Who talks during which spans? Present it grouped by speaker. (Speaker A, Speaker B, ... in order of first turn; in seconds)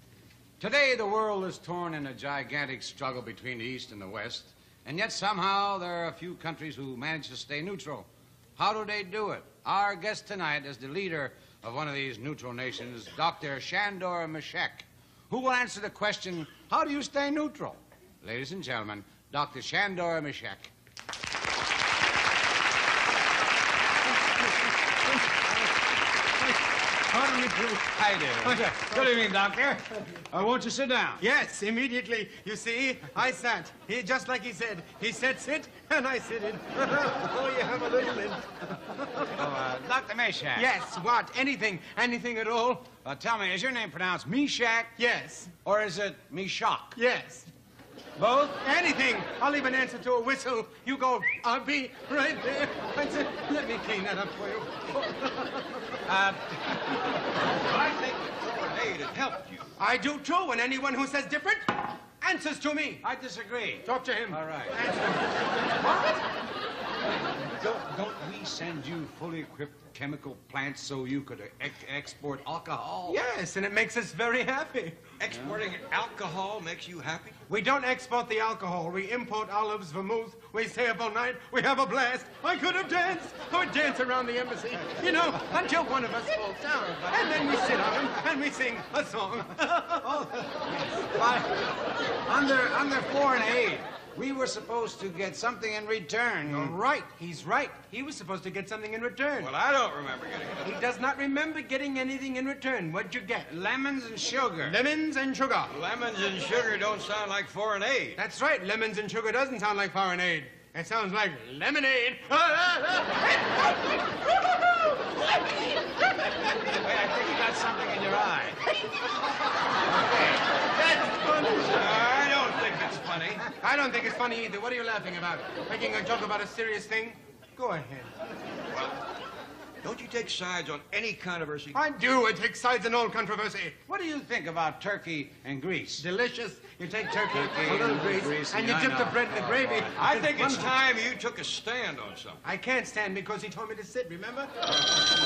Speaker A: 0.6-20.7, 28.0-31.2, 39.4-40.7, 43.0-45.0, 45.6-47.0, 56.0-57.0, 63.0-64.8, 65.8-66.2, 67.6-73.2, 75.3-75.6, 90.0-91.6, 92.2-96.8, 103.5-104.8, 116.7-118.6, 119.9-120.4, 133.9-136.1, 137.3-139.9
Speaker B: 24.1-25.7, 26.4-29.1, 31.2-39.3, 40.5-42.9, 45.0-45.5, 47.0-47.5, 48.2-55.7, 59.8-63.0, 63.9-65.3, 73.1-75.0, 77.5-90.3, 96.5-99.5, 100.6-103.5, 104.6-105.7, 108.2-113.3, 120.8-121.7, 123.6-128.1, 131.7-133.8, 136.0-140.8, 142.4-144.5
Speaker C: 57.6-59.7, 75.2-77.4, 99.4-100.7, 105.7-108.2, 121.5-123.5, 128.7-129.0, 129.8-131.8, 139.9-142.4